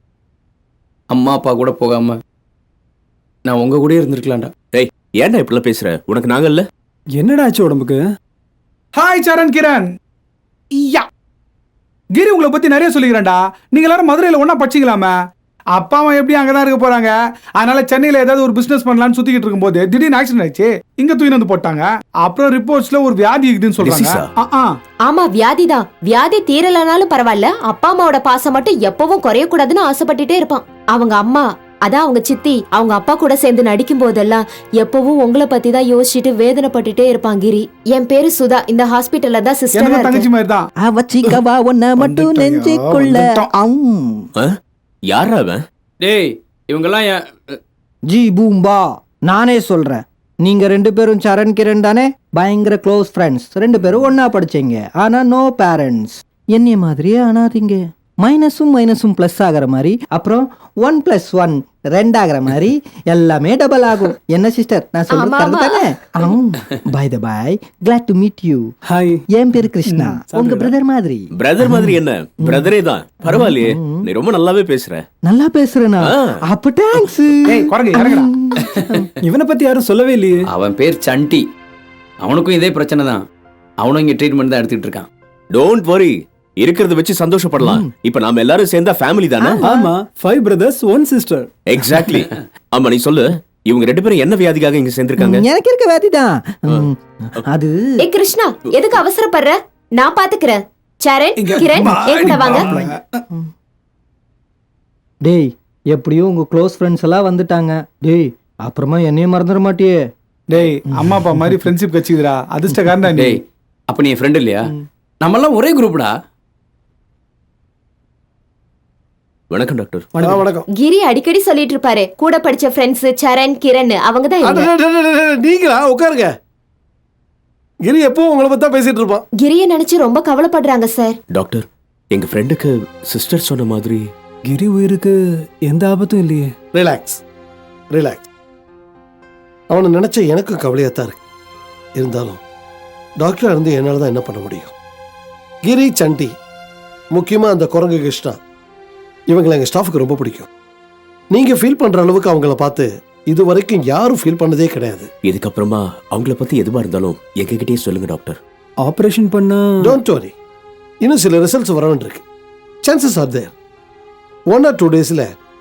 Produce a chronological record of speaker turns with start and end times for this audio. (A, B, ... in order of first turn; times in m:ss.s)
0:01.1-0:02.2 A
0:03.5-0:04.5 A
0:04.7-0:06.7 B
0:07.2-0:08.0 C
0:09.0-0:09.9 D
0:10.7-0:11.1 D
0:12.2-0:15.1 D
0:15.8-0:24.7 D
0:23.8-0:24.3 B
0:25.0-0:40.3 E
0:39.8-0:40.7 D
0:40.8-0:44.3 F
0:42.0-0:43.5 D
0:44.4-0:45.6 B
0:46.0-0:47.2 A
0:48.1-1:08.7 F
1:05.1-1:06.3 E
1:08.9-1:09.2 C
1:09.3-1:12.7 F
1:09.9-1:10.2 D
1:10.3-1:10.7 C
1:11.4-1:15.0 B
1:13.2-1:14.1 F
1:15.2-1:19.1 F
1:16.0-1:16.4 B
1:17.4-1:18.3 D
1:19.2-1:20.5 C
1:20.5-1:21.4 A
1:22.2-1:23.2 A
1:23.8-1:25.1 A
1:25.5-1:29.6 B
1:27.6-1:27.9 F
1:29.4-1:29.9 F
1:29.6-1:31.5 C
1:31.7-1:35.4 B
1:35.2-1:37.8 F
1:38.0-1:42.7 E
1:41.4-1:43.0 D
1:42.2-1:43.5 F
1:45.2-1:50.0 F
1:50.5-1:53.4 D
1:50.6-1:51.6 F
1:53.9-1:54.7 A
1:55.2-1:56.1 A
1:59.5-2:00.1 B
2:00.2-2:00.4 C
2:00.2-2:00.6 G
2:00.7-2:04.7 E
2:04.4-2:06.3 G
2:07.8-2:09.2 G
2:09.4-2:11.2 E
2:11.3-2:14.1 B
2:14.5-2:16.5 C
2:16.7-2:17.2 G
2:17.9-2:18.2 G
2:19.7-2:21.2 G
2:22.0-2:22.4 G
2:23.2-2:24.7 G
2:25.6-2:26.3 G
2:27.1-2:28.4 G
2:29.3-2:30.5 G
2:31.3-2:35.1 G
2:35.2-2:38.4 B
2:38.8-2:40.0 C
2:39.8-2:40.3 G
2:41.0-2:42.2 G
2:42.8-2:43.5 G
2:44.5-2:45.3 G